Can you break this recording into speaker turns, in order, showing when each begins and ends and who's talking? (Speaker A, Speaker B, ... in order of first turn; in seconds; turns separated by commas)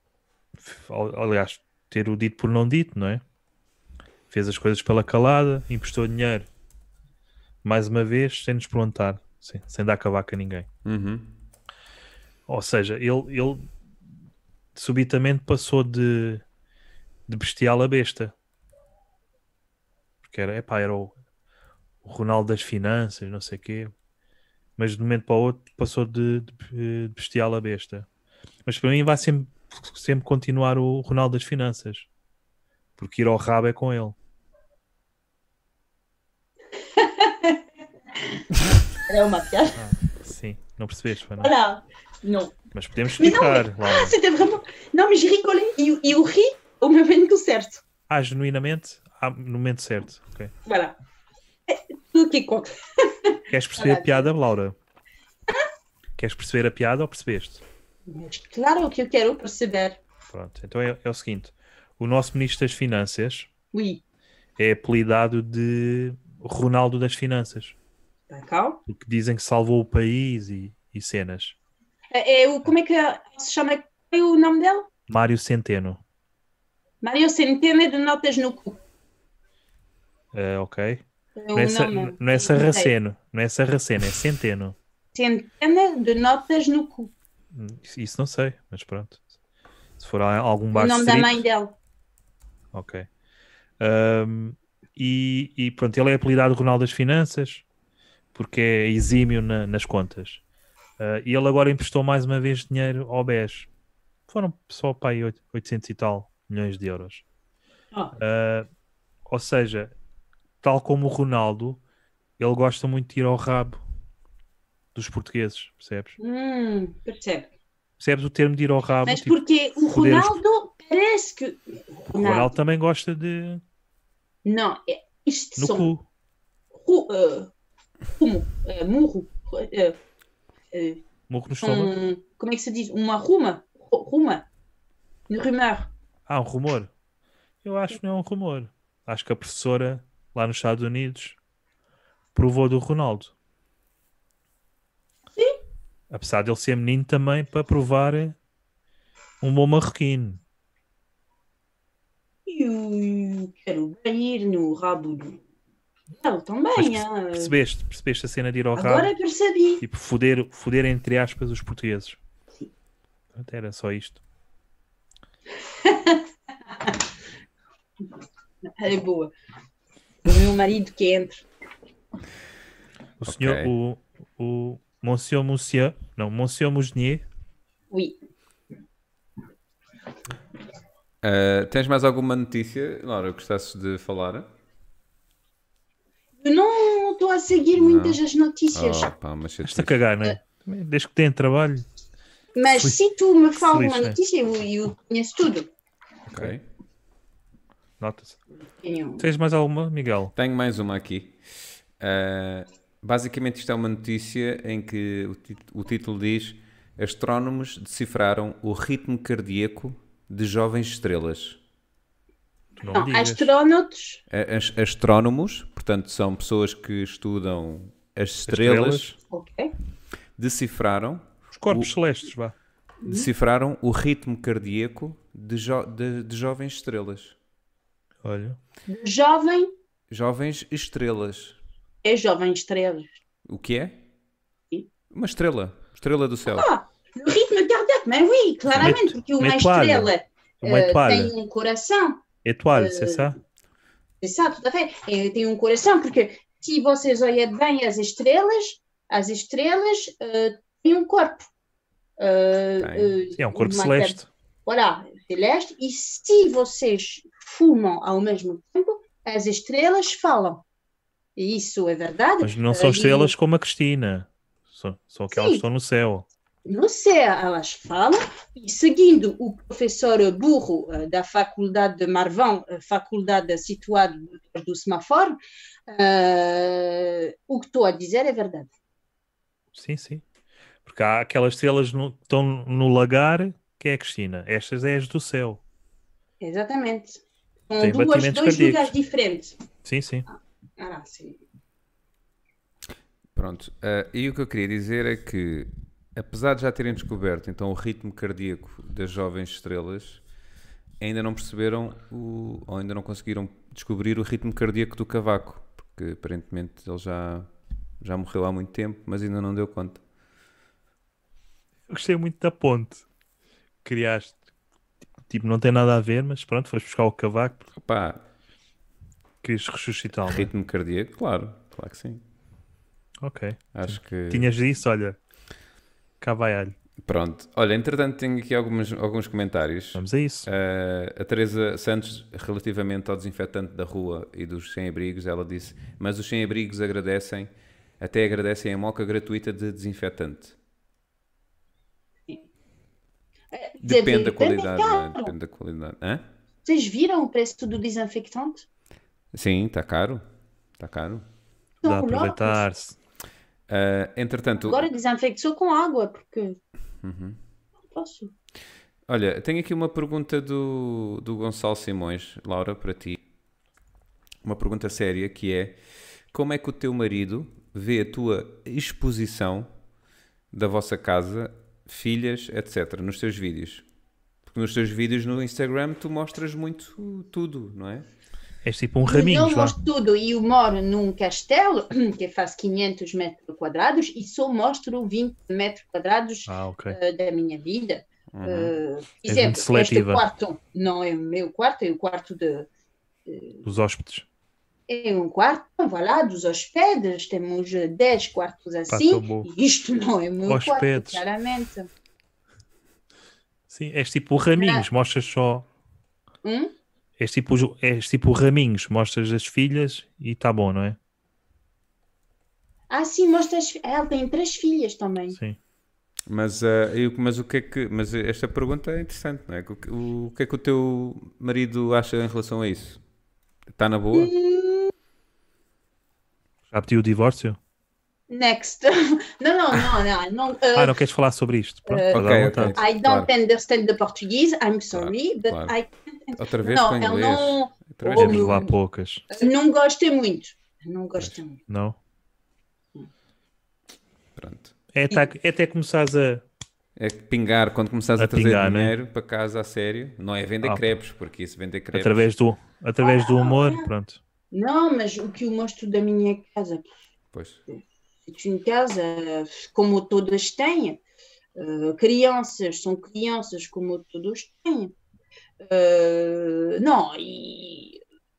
Speaker A: 0.6-3.2, Speaker A: 4.3-6.5, Speaker A: 7.6-10.7, Speaker B: 10.8-11.3, Speaker A: 12.5-13.7, Speaker A: 14.8-16.4, Speaker A: 17.3-18.3, Speaker A: 20.2-21.1, Speaker A: 22.0-23.9, Speaker A: 24.8-28.1, Speaker A: 28.6-32.1, Speaker A: 33.0-34.1, Speaker C: 36.8-37.6, Speaker C: 38.2-39.8, Speaker A: 39.8-41.5, Speaker C: 41.4-42.6, Speaker A: 42.7-44.2, Speaker C: 43.1-47.8, Speaker A: 48.1-50.5, Speaker C: 50.6-51.0, Speaker C: 51.7-54.3, Speaker A: 53.5-54.8, Speaker A: 56.2-57.6, Speaker C: 58.1-60.0, Speaker A: 60.3-63.5, Speaker C: 63.7-64.0, Speaker A: 64.6-67.8, Speaker C: 68.3-68.8, Speaker A: 68.9-71.6, Speaker C: 72.1-74.9, Speaker A: 75.1-76.0, Speaker C: 77.0-78.8, Speaker A: 80.3-81.0, Speaker C: 81.4-82.9, Speaker A: 81.5-84.8, Speaker C: 85.1-87.1, Speaker A: 87.5-89.2, Speaker A: 90.0-91.4, Speaker C: 90.7-91.8, Speaker A: 92.7-93.1, Speaker A: 93.8-97.7, Speaker A: 98.3-100.4, Speaker A: 101.0-103.7, Speaker A: 104.3-107.2, Speaker A: 108.2-108.7, Speaker A: 109.3-109.9, Speaker A: 110.6-111.8, Speaker A: 112.4-113.8, Speaker A: 115.0-116.2, Speaker C: 116.2-117.5, Speaker A: 118.0-120.4, Speaker C: 119.1-122.5, Speaker A: 122.2-123.6, Speaker C: 124.5-125.9, Speaker A: 125.6-126.1, Speaker C: 126.7-127.5, Speaker C: 128.1-130.0, Speaker C: 130.7-131.1, Speaker A: 131.3-131.9, Speaker C: 131.6-134.4, Speaker C: 135.3-135.9, Speaker A: 136.3-136.9, Speaker A: 137.6-141.4, Speaker A: 142.3-143.3, Speaker A: 146.1-148.4, Speaker A: 149.4-150.4, Speaker C: 152.5-155.4, Speaker C: 156.2-157.6, Speaker A: 156.8-159.1, Speaker C: 158.8-159.8, Speaker A: 159.8-162.2, Speaker A: 163.3-164.2, Speaker C: 165.7-167.0, Speaker C: 168.8-169.3, Speaker C: 170.2-171.4, Speaker A: 173.2-177.2, Speaker B: 173.2-173.7, Speaker C: 177.9-178.2, Speaker B: 181.2-184.5, Speaker C: 186.4-189.1, Speaker B: 187.8-188.2, Speaker B: 188.7-190.0, Speaker A: 189.7-191.9, Speaker C: 192.6-195.7, Speaker A: 192.7-193.0, Speaker A: 193.6-194.2, Speaker B: 196.3-196.6, Speaker A: 198.0-198.4, Speaker C: 198.7-199.3, Speaker A: 199.2-200.3, Speaker B: 200.3-201.4, Speaker B: 202.0-211.6, Speaker A: 212.8-213.5, Speaker C: 212.9-214.2, Speaker B: 214.3-219.1, Speaker A: 218.5-219.2, Speaker C: 219.3-219.7, Speaker B: 220.4-221.9, Speaker A: 221.5-222.6, Speaker C: 223.0-223.3, Speaker B: 223.1-227.4, Speaker A: 228.2-228.6, Speaker C: 228.9-229.7, Speaker B: 230.1-231.6, Speaker C: 232.0-233.1, Speaker B: 233.5-234.0, Speaker B: 235.1-236.7, Speaker C: 236.5-243.3, Speaker A: 238.8-241.3, Speaker A: 242.4-243.4, Speaker C: 244.2-251.5, Speaker C: 252.2-260.6, Speaker B: 252.8-253.2, Speaker A: 253.4-254.3, Speaker C: 261.4-263.3, Speaker A: 262.4-266.3, Speaker C: 265.3-265.6, Speaker C: 266.6-275.4, Speaker C: 275.9-278.7, Speaker A: 279.7-280.2, Speaker A: 280.9-285.6, Speaker C: 286.4-289.6, Speaker A: 287.8-288.9, Speaker A: 289.9-290.3, Speaker C: 290.3-291.4, Speaker B: 293.4-300.2, Speaker B: 301.0-307.5, Speaker B: 308.0-310.0, Speaker A: 311.9-313.1, Speaker A: 313.8-314.4, Speaker A: 315.3-317.7, Speaker B: 317.7-318.2, Speaker A: 319.4-320.5, Speaker B: 320.2-322.2, Speaker A: 323.2-325.2, Speaker B: 323.7-324.5, Speaker A: 326.2-326.7, Speaker B: 327.0-340.6, Speaker A: 330.0-330.5, Speaker C: 343.5-345.3, Speaker B: 343.8-346.2, Speaker C: 346.6-348.7, Speaker B: 349.3-350.2, Speaker B: 350.8-351.2, Speaker C: 351.8-352.6, Speaker A: 351.9-353.0, Speaker B: 353.7-354.9, Speaker C: 354.6-356.6, Speaker B: 357.0-357.4, Speaker C: 357.9-358.3, Speaker B: 359.1-363.2, Speaker B: 364.4-365.8, Speaker B: 366.3-369.7, Speaker B: 370.5-373.9, Speaker B: 374.5-378.1, Speaker A: 378.6-379.8, Speaker C: 379.1-392.7, Speaker A: 386.5-387.0, Speaker B: 388.3-388.7, Speaker A: 389.3-390.2, Speaker C: 393.3-393.6, Speaker A: 393.6-394.3, Speaker C: 394.9-401.9, Speaker A: 398.9-399.5, Speaker A: 400.5-401.2, Speaker A: 403.7-405.7, Speaker C: 404.6-404.9, Speaker C: 406.4-406.7, Speaker A: 407.2-411.0, Speaker C: 412.9-415.4, Speaker A: 415.3-415.6, Speaker B: 416.3-423.0, Speaker B: 423.7-424.3, Speaker C: 424.1-424.9, Speaker A: 426.7-427.6, Speaker C: 428.3-431.0, Speaker A: 430.8-432.8, Speaker C: 431.9-438.8, Speaker B: 432.1-433.3, Speaker B: 434.9-435.7, Speaker B: 436.4-438.7, Speaker A: 438.2-439.2, Speaker C: 439.3-441.6, Speaker A: 441.7-442.0, Speaker B: 444.4-444.7, Speaker A: 444.9-446.4, Speaker B: 447.0-452.3, Speaker A: 448.2-448.9, Speaker A: 451.9-454.2, Speaker C: 453.0-453.9, Speaker C: 454.5-456.9, Speaker B: 457.3-457.6, Speaker C: 458.3-461.0, Speaker C: 461.6-464.9, Speaker C: 465.6-468.0